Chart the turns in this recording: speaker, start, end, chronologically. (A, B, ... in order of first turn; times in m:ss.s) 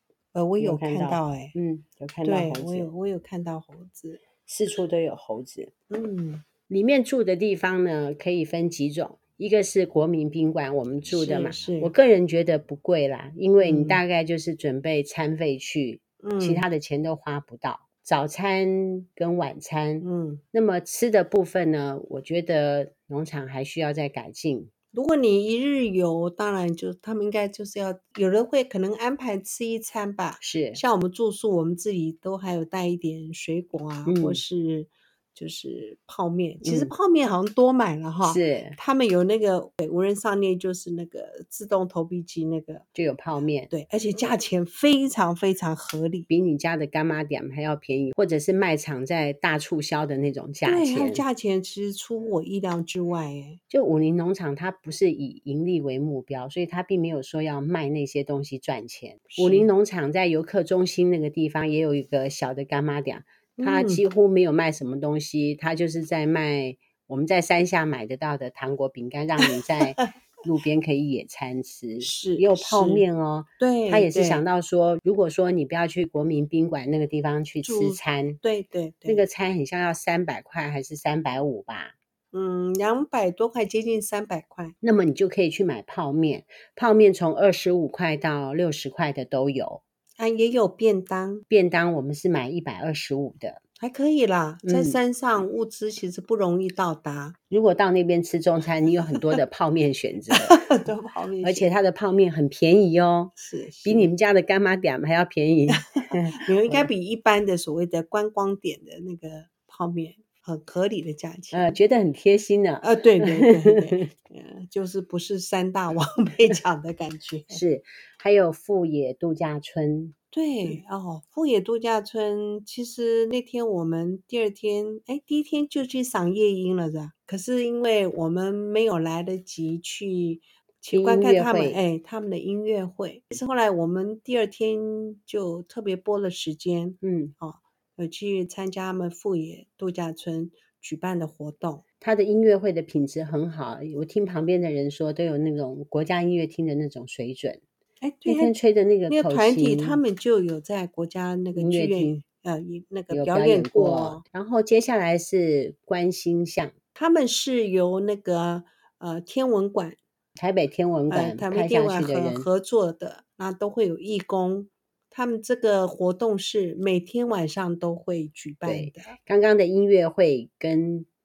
0:00.3-0:01.5 A
0:00.6-0:02.9 B
0:02.2-0:04.2 A
0:04.4-0:05.7 B
0:05.9-0:06.4 A
0:06.7-0:24.7 B
0:11.1-0:11.9 A
0:13.6-0:14.0 A
0:16.2-0:16.6 A
0:20.0-0:20.4 A
0:24.9-0:42.9 A
0:30.4-0:30.8 B
0:34.0-0:34.4 B
0:36.6-0:36.9 B
0:38.2-0:38.8 B
0:43.0-0:43.7 B
0:43.7-0:46.3 A
0:46.3-0:51.2 B
0:50.6-0:53.6 A
0:53.7-1:18.4 B
0:59.3-0:59.7 A
1:03.6-1:04.0 A
1:12.0-1:13.0 A
1:13.6-1:14.4 A
1:17.6-1:19.2 A
1:19.1-1:21.9 B
1:22.3-1:24.8 A
1:24.8-1:29.8 B
1:30.2-1:31.4 A
1:31.5-1:33.6 B
1:33.8-1:37.4 A
1:34.6-1:35.0 B
1:37.5-1:40.7 B
1:40.3-1:41.7 A
1:41.4-1:43.3 B
1:43.4-1:44.1 A
1:43.8-1:46.9 B
1:46.3-1:51.8 A
1:51.5-1:54.1 B
1:52.8-1:57.6 A
1:57.5-2:00.2 B
2:00.3-2:21.8 A
2:10.9-2:11.8 B
2:17.0-2:17.3 B
2:22.0-2:27.6 B
2:28.0-2:28.5 A
2:28.2-2:30.0 B
2:29.1-2:34.2 A
2:31.6-2:32.2 B
2:33.1-2:36.7 B
2:37.0-2:40.0 A
2:40.4-2:42.5 B
2:41.1-2:49.2 A
2:48.6-2:51.1 B